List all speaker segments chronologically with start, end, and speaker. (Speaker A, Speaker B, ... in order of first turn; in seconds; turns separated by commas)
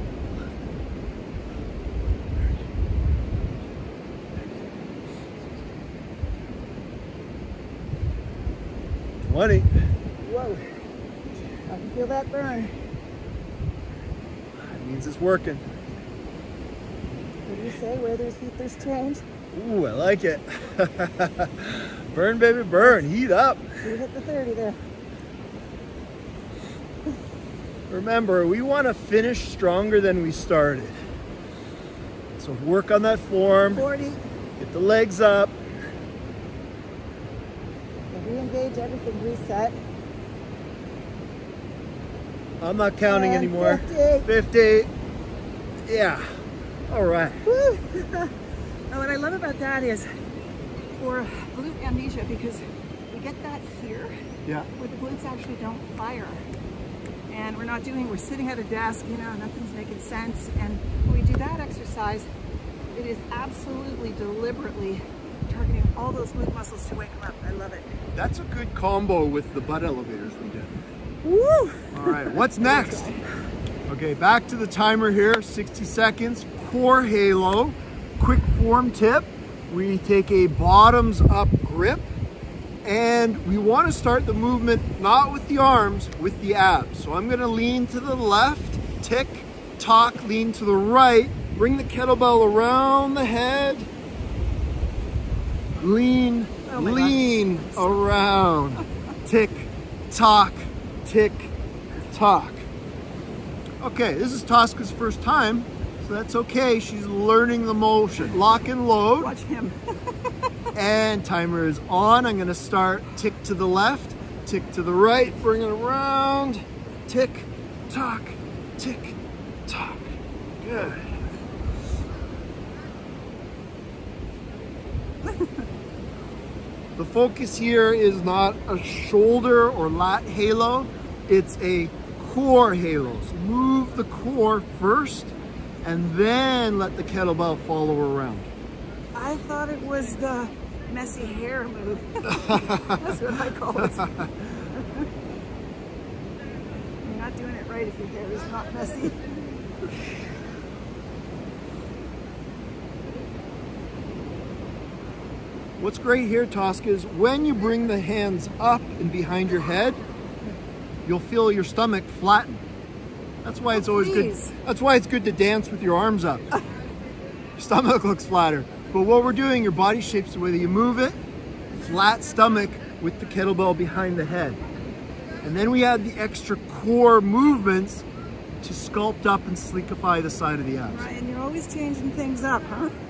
Speaker A: 9.2-9.7, Speaker B: 10.2-10.6, Speaker B: 11.7-12.7, Speaker A: 14.6-15.7, Speaker B: 17.5-19.2, Speaker A: 19.5-23.8, Speaker B: 23.8-24.8, Speaker A: 27.9-31.0, Speaker A: 32.4-33.9, Speaker B: 33.7-34.2, Speaker A: 34.6-35.6, Speaker B: 38.1-39.8, Speaker A: 42.6-44.9, Speaker B: 43.1-44.3, Speaker A: 45.9-46.3, Speaker A: 46.9-47.4, Speaker B: 47.5-48.3, Speaker B: 48.9-50.1, Speaker B: 51.0-54.1, Speaker B: 54.8-56.4, Speaker B: 57.3-62.3, Speaker B: 62.9-67.9, Speaker A: 68.2-70.8, Speaker B: 71.2-73.2, Speaker A: 71.9-73.1, Speaker A: 73.9-82.1, Speaker A: 82.8-93.9, Speaker A: 95.8-101.5, Speaker B: 96.7-98.0, Speaker A: 102.1-102.7, Speaker A: 103.8-109.4, Speaker B: 109.2-110.3, Speaker A: 110.8-121.2, Speaker B: 125.3-125.6, Speaker A: 127.0-138.5, Speaker B: 139.2-145.1, Speaker A: 142.3-143.2, Speaker A: 144.0-144.3, Speaker B: 147.0-149.2, Speaker A: 155.8-160.0, Speaker A: 161.1-162.6, Speaker A: 163.4-166.5, Speaker B: 163.7-164.6, Speaker A: 167.6-171.2, Speaker A: 171.7-174.6, Speaker A: 175.4-178.1, Speaker A: 178.6-181.1, Speaker B: 180.9-182.9